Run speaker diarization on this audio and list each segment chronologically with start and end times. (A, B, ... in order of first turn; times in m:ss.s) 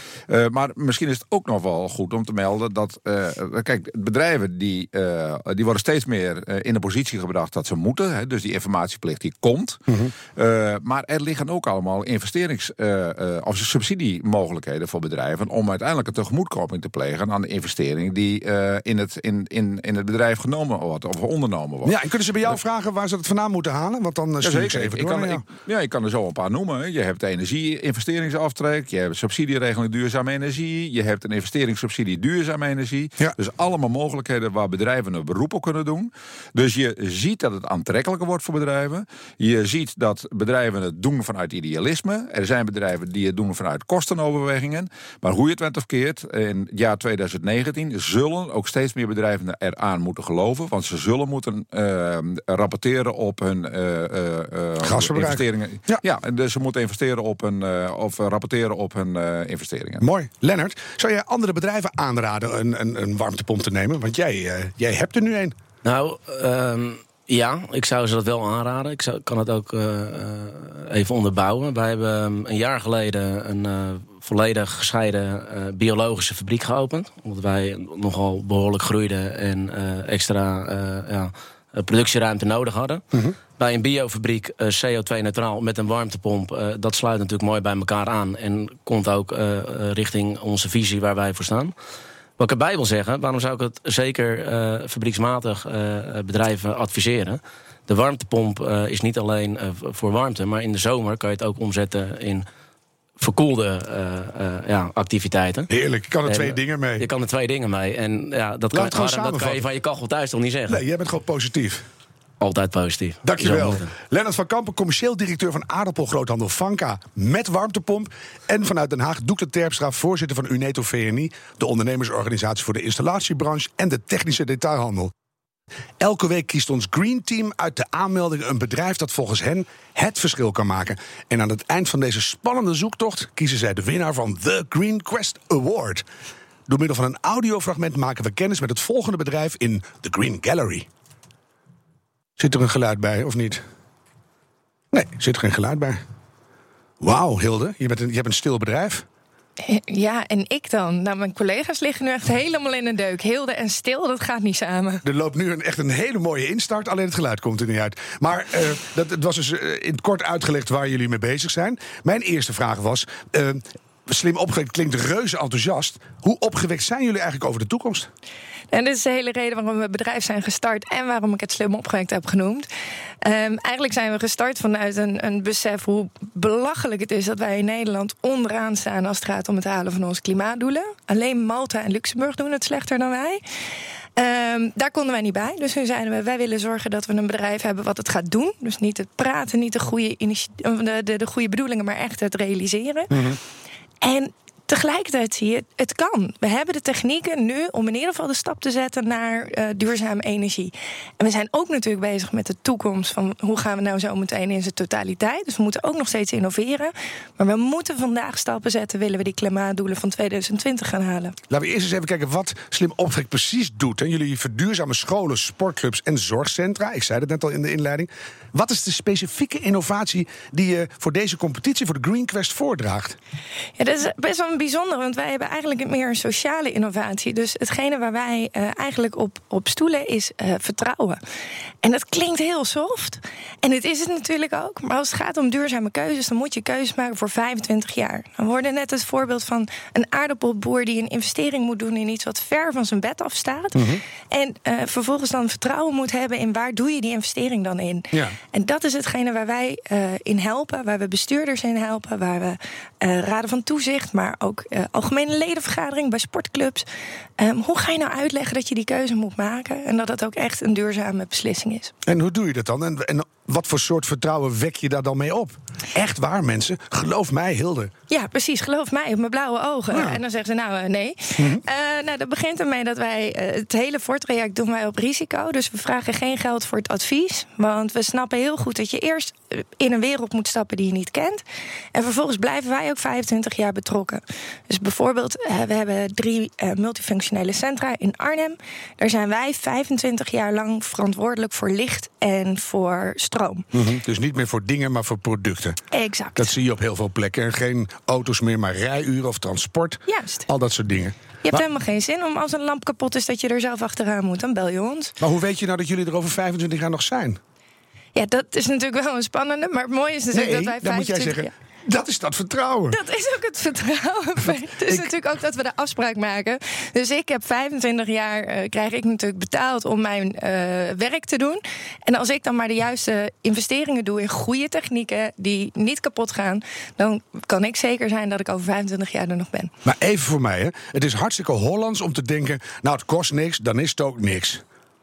0:00.3-0:09.8 A
0:10.3-0:21.9 A
0:21.8-0:25.4 B
0:24.4-1:00.0 A
0:54.8-0:56.0 B
1:00.0-1:05.5 B
1:05.8-1:23.0 C
1:23.6-1:31.7 C
1:32.4-1:42.4 C
1:43.2-1:45.7 C
1:45.7-1:47.1 B
1:46.2-1:50.8 C
1:48.7-1:49.6 B
1:50.7-1:51.8 B
1:52.4-1:53.9 C
1:53.2-2:05.1 B
2:06.0-2:16.0 B
2:16.7-2:20.9 B
2:22.4-2:23.6 B
2:24.9-2:26.0 B
2:27.0-2:29.0 B
2:29.6-2:35.0 D
2:35.0-2:48.1 B
2:48.7-2:52.7 D
2:53.2-3:03.4 D
3:04.2-3:13.2 D
3:13.1-3:13.4 B
3:14.0-3:31.3 D
3:31.5-3:43.2 B
3:43.8-3:51.2 D
3:51.8-4:16.8 D
4:03.8-4:04.0 B
4:08.1-4:08.4 B
4:17.4-4:21.9 D
4:22.1-4:27.9 B
4:28.1-4:41.4 D
4:29.9-4:30.2 B
4:41.9-4:53.6 D
4:53.7-4:55.8 B
4:55.9-4:56.5 D
4:56.4-5:01.6 B
5:00.1-5:00.4 D
5:01.4-5:05.1 D
5:05.2-5:07.4 B
5:08.1-5:11.5 D
5:10.3-5:13.0 B
5:12.9-5:29.7 D
5:29.8-5:34.6 B